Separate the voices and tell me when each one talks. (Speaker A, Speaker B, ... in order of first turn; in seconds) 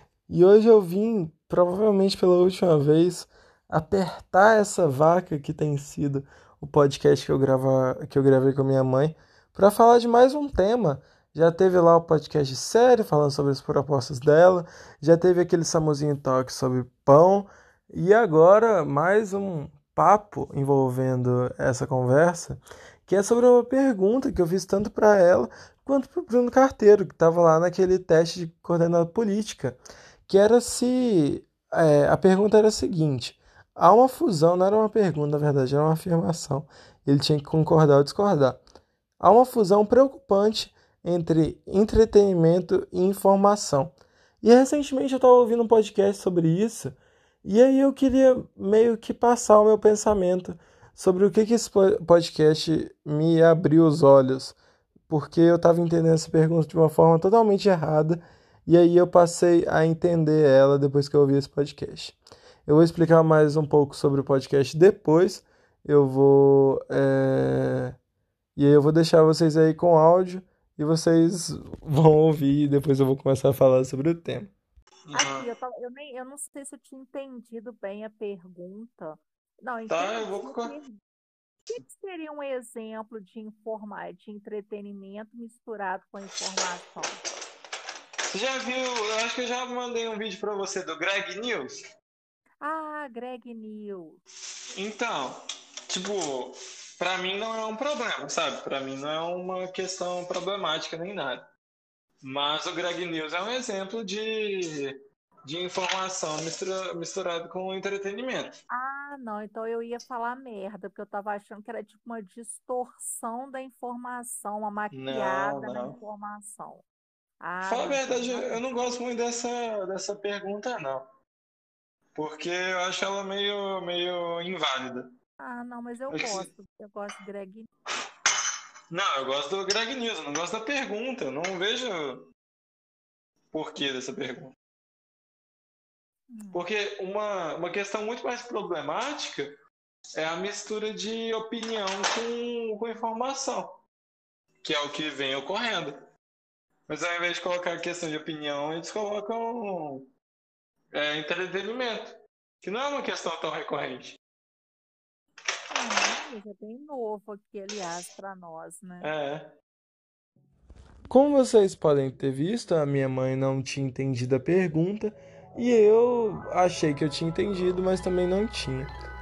Speaker A: 0.3-38.6, 39.2-54.6, 55.1-67.9, 68.5-74.5, 161.1-168.9
Speaker B: 75.1-75.5, 79.9-80.7, 88.3-91.8, 94.8-101.4, 102.2-104.9, 105.4-108.6, 114.9-115.9, 117.7-121.1, 122.1-125.1, 126.1-126.5, 128.9-132.2, 133.5-134.6, 136.5-139.5, 140.2-143.8, 144.6-146.0, 146.9-150.0, 150.9-154.2, 159.0-159.5
Speaker C: 75.1-81.0, 81.7-87.2, 92.6-94.2, 108.7-116.8, 117.4-118.9, 125.4-127.7, 136.3-136.7, 155.7-159.1